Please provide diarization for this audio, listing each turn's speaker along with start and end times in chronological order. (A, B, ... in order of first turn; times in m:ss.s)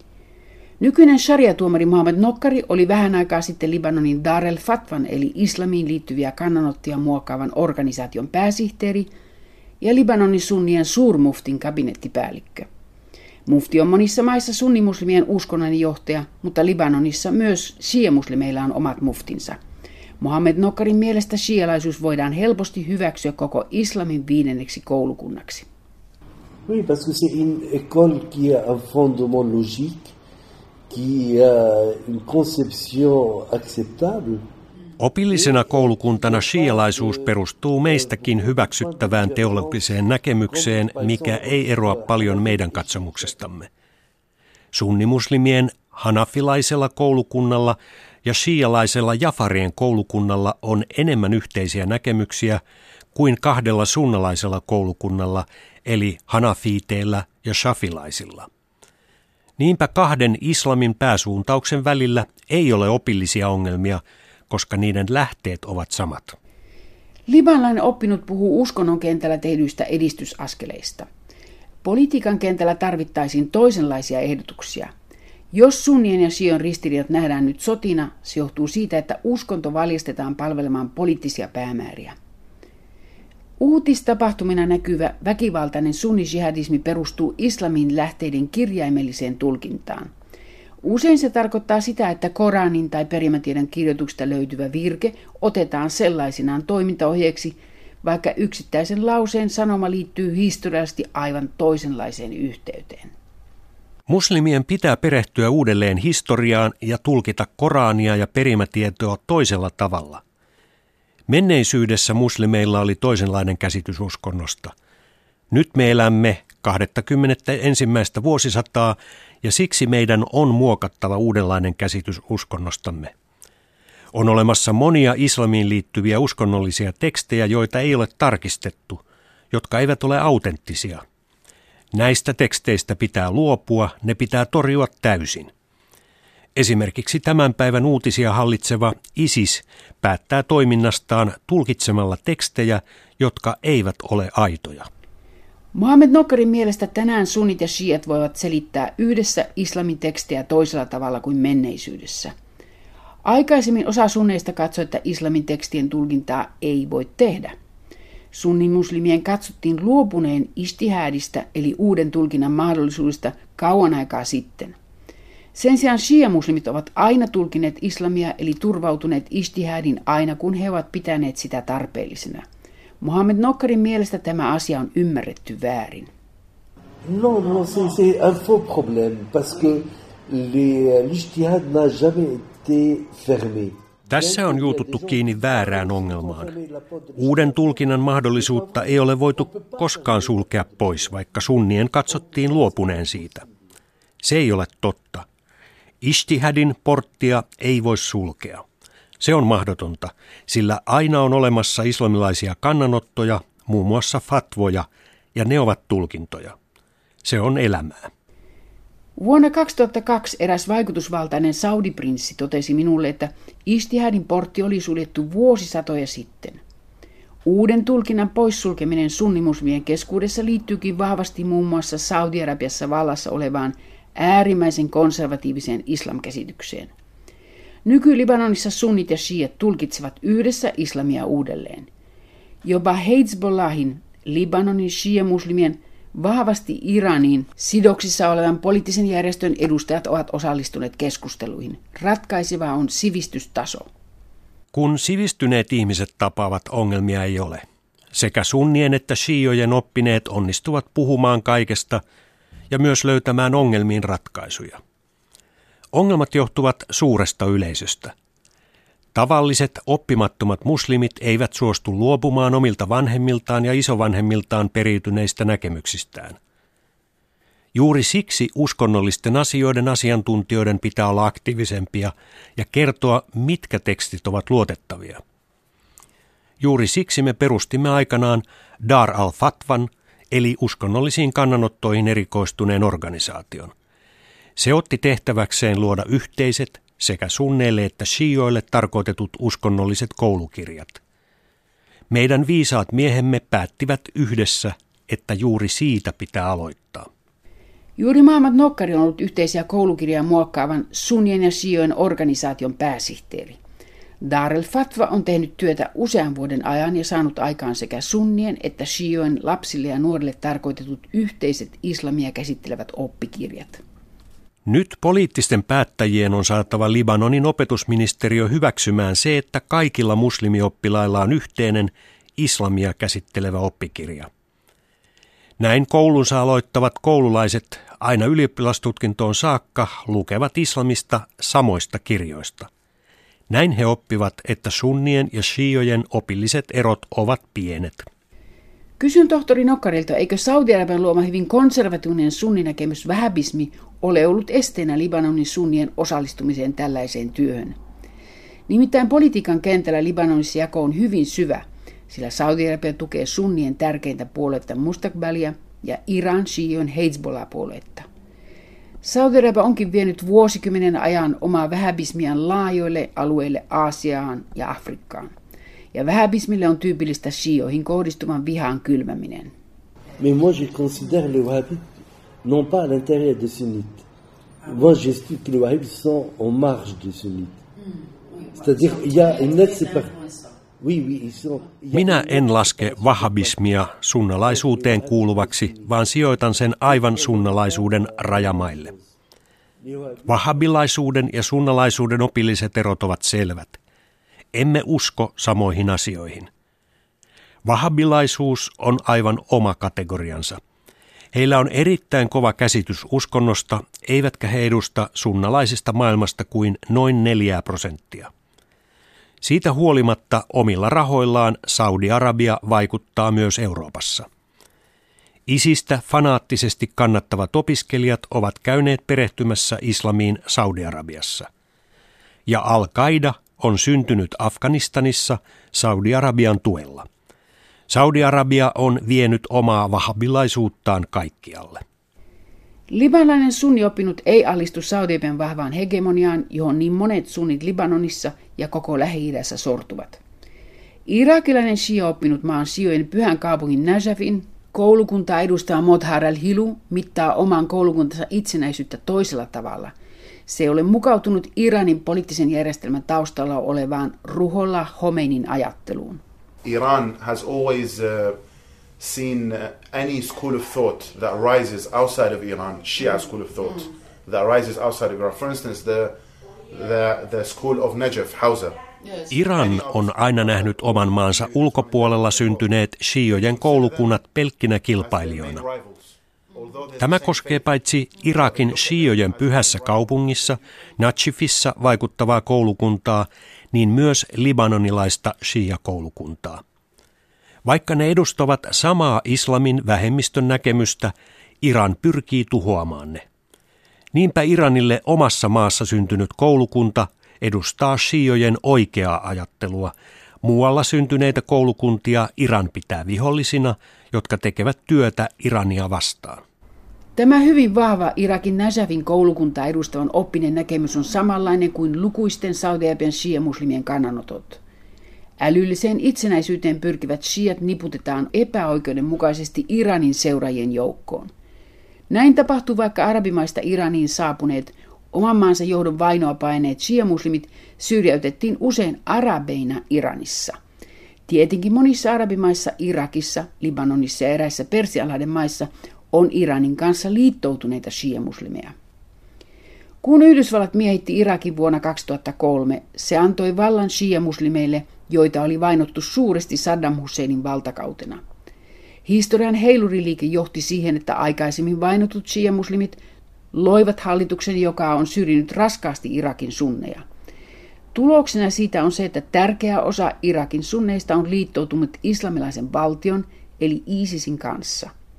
0:00.8-0:09.1 A
0:09.8-0:12.7 A
0:13.4-0:19.6 A
0:20.2-0:25.7 A
0:26.7-0:30.1 B
0:30.9-0:34.5 B
0:35.0-0:43.7 C
0:35.3-0:43.4 B
0:44.7-0:52.6 C
0:53.1-0:58.4 C
0:59.6-1:06.4 C
1:07.3-1:11.1 A
1:11.8-1:14.9 A
1:15.5-1:22.1 A
1:23.6-1:30.1 A
1:30.8-1:43.1 A
1:44.1-1:50.2 C
1:51.3-1:54.7 C
1:55.5-2:03.1 C
2:04.1-2:11.0 C
2:11.9-2:15.5 C
2:16.6-2:24.8 C
2:25.7-2:32.3 A
2:33.2-2:37.5 A
2:38.3-2:44.8 A
2:45.5-2:52.4 A
2:53.0-2:56.1 A
2:57.0-3:11.1 B
3:04.1-3:06.5 C
3:07.2-3:13.4 C
3:12.1-3:13.5 B
3:14.2-3:15.2 C
3:16.0-3:18.6 C
3:19.2-3:26.5 C
3:27.2-3:28.1 C
3:29.2-3:36.6 A
3:37.4-3:46.9 A
3:47.8-3:51.9 A
3:52.6-4:03.9 A
4:04.7-4:12.0 C
4:12.7-4:14.8 C
4:15.9-4:18.1 C
4:19.1-4:26.4 C
4:27.7-4:35.2 C
4:36.6-4:43.7 C
4:44.6-4:51.0 C
4:52.1-4:57.1 C
4:58.0-5:03.6 A
5:04.2-5:13.8 A
5:14.6-5:24.3 C
5:25.6-5:32.7 C
5:33.5-5:38.0 C
5:39.0-5:47.8 A
5:48.7-5:58.0 A
5:59.0-6:05.3 A
6:05.9-6:09.5 A
6:10.2-6:14.0 B
6:14.6-6:17.6 B
6:18.5-6:23.6 B
6:21.9-6:28.9 C
6:24.4-6:25.9 B
6:26.9-6:29.1 B
6:29.8-6:30.7 B
6:30.3-6:33.8 C
6:34.5-6:36.5 C
6:37.6-6:40.6 C
6:41.3-6:48.3 C
6:49.4-6:54.2 C
6:55.5-7:01.5 C
7:02.5-7:07.0 C
7:07.9-7:11.8 C
7:12.9-7:20.2 A
7:21.1-7:29.9 A
7:30.5-7:36.2 A
7:36.6-7:38.4 D
7:39.0-7:48.8 D
7:49.3-7:55.6 C
7:49.5-7:52.6 D
7:53.3-7:54.2 D
7:55.0-7:57.8 D
7:57.0-8:06.6 C
7:58.3-8:00.6 D
8:07.6-8:13.2 C
8:14.1-8:19.9 C
8:20.4-8:26.4 C
8:27.2-8:34.6 A
8:35.4-8:41.3 A
8:42.1-8:50.6 A
8:51.3-8:58.7 A
9:00.0-9:08.2 A
9:09.0-9:13.0 A
9:13.5-9:17.0 A
9:17.9-9:24.9 A